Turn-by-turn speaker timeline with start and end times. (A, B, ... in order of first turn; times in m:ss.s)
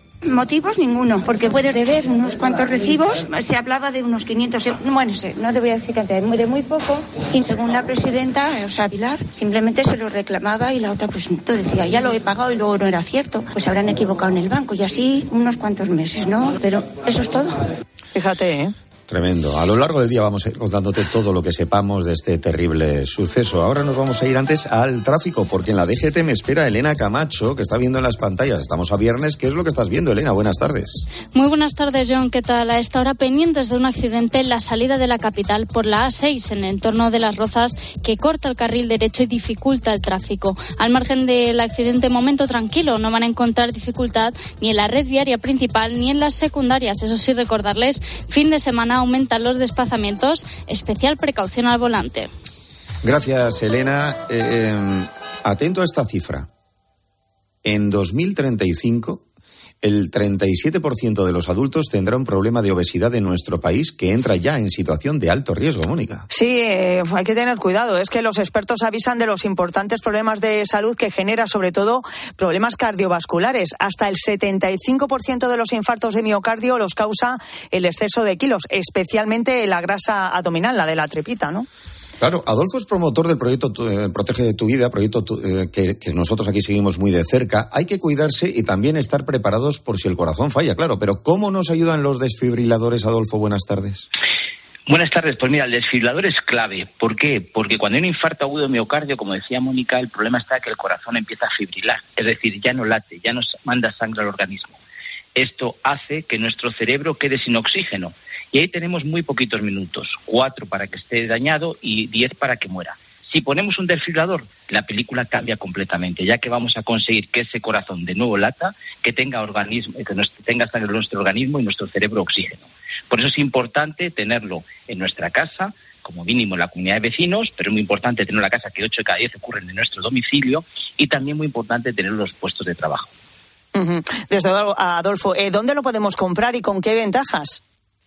0:00.2-0:17.7 A
0:18.1-0:18.7 B
0:19.1-0:31.1 C
0:31.3-0:52.3 D
0:53.0-0:56.5 C
0:57.6-0:59.2 C
0:59.8-1:06.3 C
1:06.3-1:21.7 B
1:22.2-1:34.1 C
1:34.9-1:44.8 E
1:45.4-2:13.1 E
2:13.7-2:17.6 B